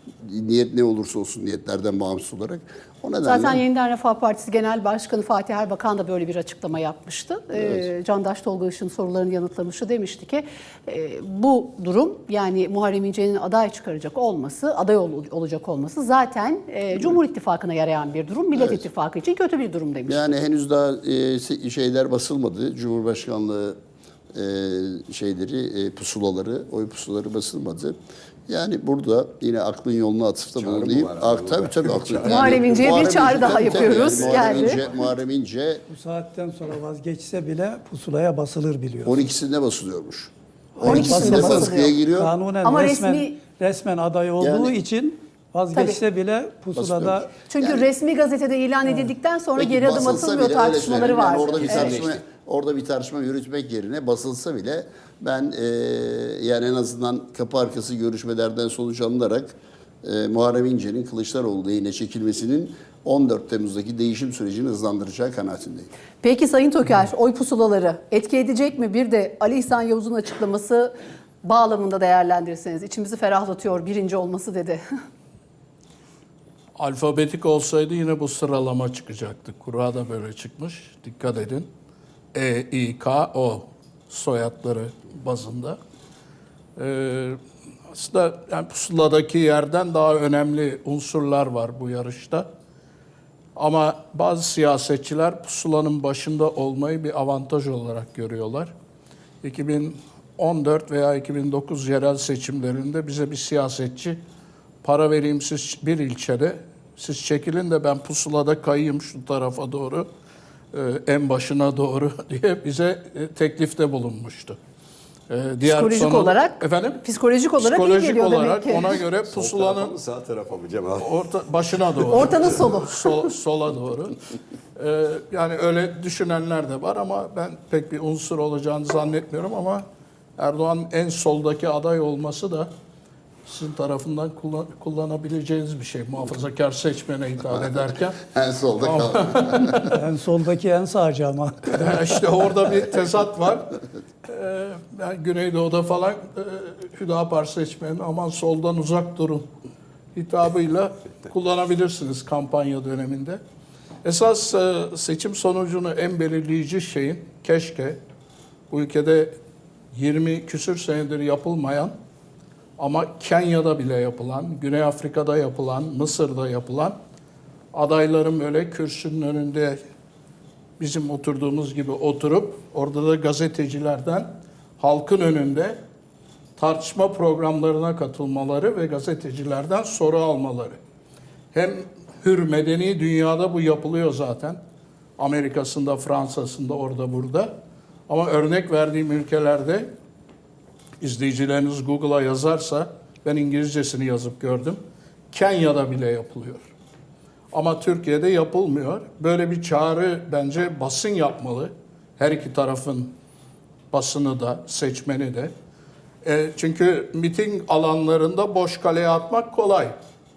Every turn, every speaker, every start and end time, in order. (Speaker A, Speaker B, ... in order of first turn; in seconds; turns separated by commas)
Speaker A: 0.2-3.6, Speaker B: 3.2-20.2, Speaker A: 20.1-23.8, Speaker A: 24.3-27.9, Speaker A: 28.5-35.9, Speaker C: 30.5-34.8, Speaker B: 32.2-34.8, Speaker D: 35.9-39.2, Speaker A: 39.1-42.3, Speaker D: 40.8-47.3, Speaker B: 40.8-42.0, Speaker B: 42.6-43.4, Speaker A: 44.4-44.7, Speaker B: 45.7-46.0, Speaker A: 46.8-47.9, Speaker B: 47.5-52.0, Speaker A: 49.6-65.9, Speaker C: 51.6-52.2, Speaker B: 66.2-74.8, Speaker E: 76.8-81.7, Speaker E: 82.3-85.8, Speaker E: 86.8-87.4, Speaker E: 87.9-92.5, Speaker E: 93.6-98.7, Speaker E: 99.4-104.2, Speaker E: 104.8-110.1, Speaker E: 110.7-114.6, Speaker E: 115.3-117.0, Speaker B: 115.6-118.9, Speaker E: 117.6-120.0, Speaker C: 119.3-121.2, Speaker E: 121.0-124.2, Speaker B: 122.1-123.2, Speaker E: 124.8-129.8, Speaker E: 130.4-132.7, Speaker E: 133.4-138.2, Speaker A: 138.2-139.9, Speaker E: 138.8-139.9, Speaker D: 139.9-141.8, Speaker E: 141.7-143.8, Speaker E: 144.3-149.5, Speaker E: 150.2-153.4, Speaker E: 154.0-158.0, Speaker E: 158.7-159.4, Speaker E: 159.9-161.9, Speaker E: 162.8-167.0, Speaker E: 167.7-169.8, Speaker E: 170.8-175.8, Speaker E: 176.6-180.8, Speaker E: 181.5-184.6, Speaker E: 185.2-187.5, Speaker E: 188.1-189.9, Speaker E: 191.0-196.7, Speaker E: 197.5-203.2, Speaker E: 203.9-205.5, Speaker E: 206.2-209.9